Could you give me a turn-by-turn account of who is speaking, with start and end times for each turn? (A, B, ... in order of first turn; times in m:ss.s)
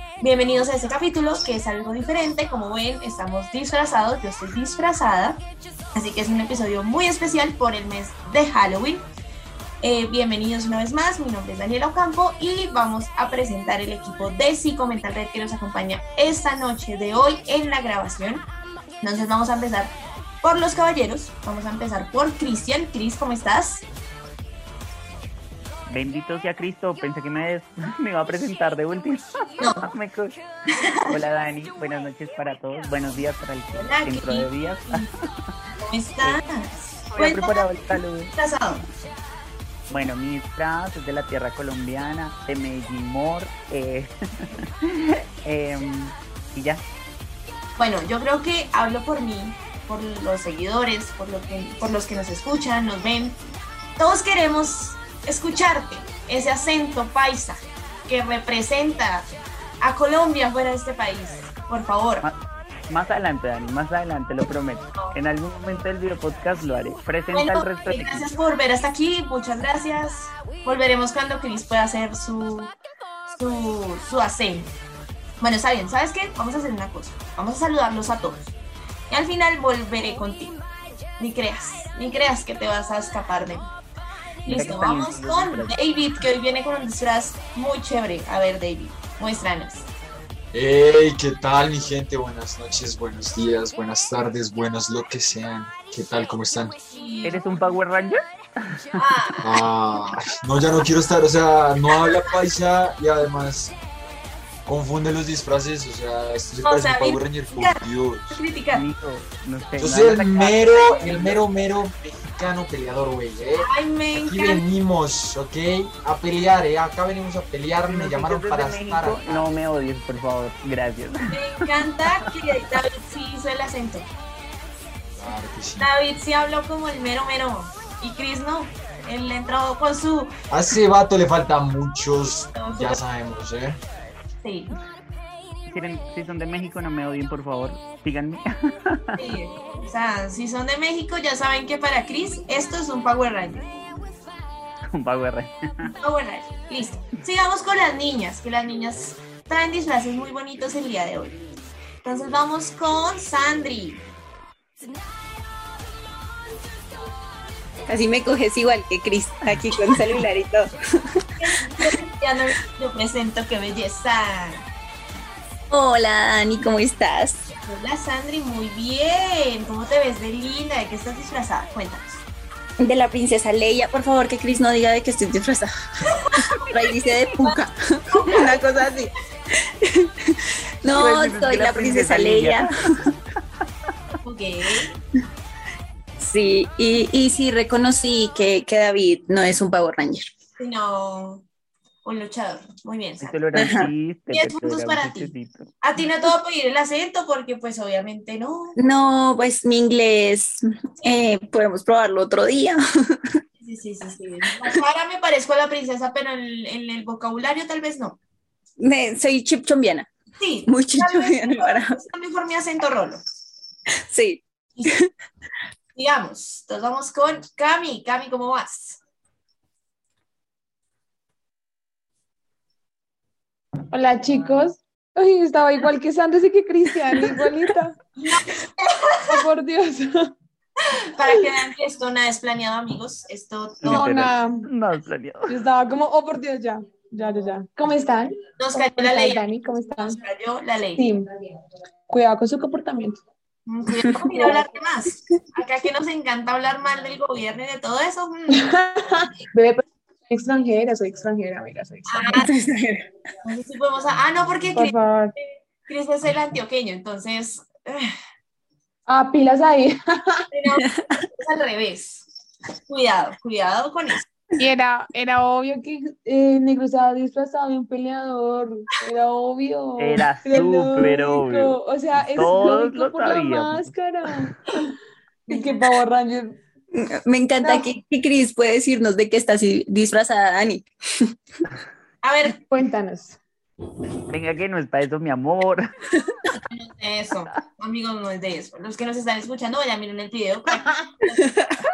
0:00.2-0:05.4 A
0:05.9-0:09.0 A
0:09.8-0:18.5 A
0:19.0-0:23.8 A
0:25.9-0:30.4 B
0:29.6-0:29.9 A
0:30.7-0:31.1 A
0:31.1-0:35.1 B
0:33.7-0:35.1 A
0:35.8-0:38.8 A
0:37.1-0:38.3 B
0:39.9-0:46.8 B
0:47.8-0:53.4 A
0:54.0-0:59.3 A
0:59.8-1:02.2 A
1:02.9-1:08.3 B
1:07.3-1:12.7 A
1:13.3-1:14.7 A
1:15.4-1:18.5 A
1:19.1-1:20.6 A
1:21.2-1:23.7 A
1:24.4-1:29.9 A
1:24.4-1:25.8 B
1:30.5-1:36.8 C
1:36.9-1:37.5 A
1:37.2-1:39.0 B
1:39.0-1:39.6 A
1:39.4-1:43.8 C
1:44.7-1:48.4 C
1:46.6-1:48.8 A
1:48.7-1:51.4 B
1:49.8-1:59.4 C
1:53.6-1:54.6 A
1:57.9-2:02.3 B
2:01.3-2:04.1 A
2:05.2-2:05.9 C
2:05.8-2:10.3 A
2:10.5-2:13.8 C
2:12.5-2:13.0 A
2:14.4-2:14.7 A
2:15.7-2:19.2 B
2:19.2-2:23.7 A
2:24.9-2:25.9 B
2:26.0-2:31.4 A
2:32.0-2:34.0 A
2:37.9-2:40.7 D
2:41.4-2:44.6 A
2:45.7-2:47.4 D
2:47.6-2:52.2 A
2:52.8-2:55.7 D
2:56.1-2:58.8 A
2:56.7-2:59.1 D
2:59.8-3:02.7 D
3:00.9-3:02.7 B
3:04.2-3:04.9 A
3:06.2-3:10.3 D
3:10.6-3:11.4 A
3:12.0-3:13.8 A
3:13.2-3:15.7 B
3:13.6-3:13.9 D
3:14.3-3:18.8 A
3:18.8-3:22.8 D
3:23.6-3:28.2 A
3:28.8-3:30.1 D
3:30.4-3:33.2 A
3:30.7-3:32.0 D
3:34.1-3:35.1 D
3:35.9-3:39.0 A
3:43.9-3:48.0 E
3:48.2-3:49.4 A
3:49.3-3:50.3 E
3:50.9-3:54.2 A
3:53.8-3:55.5 B
3:53.9-3:54.7 E
3:55.5-4:00.2 E
3:58.6-3:59.4 A
4:00.2-4:01.1 A
4:01.0-4:01.3 E
4:02.1-4:03.2 E
4:03.7-4:08.7 A
4:08.5-4:12.5 E
4:12.1-4:12.5 A
4:12.4-4:13.1 D
4:13.4-4:14.9 A
4:14.8-4:15.4 E
4:15.9-4:18.1 A
4:19.1-4:20.4 E
4:20.5-4:22.2 A
4:20.7-4:21.0 D
4:22.8-4:24.2 A
4:24.6-4:34.8 E
4:30.0-4:31.8 B
4:32.4-4:33.9 B
4:35.5-4:36.6 E
4:35.5-4:35.8 A
4:36.9-4:40.9 D
4:42.2-4:42.6 A
4:42.7-4:43.4 E
4:44.3-4:45.9 B
4:46.7-4:51.4 A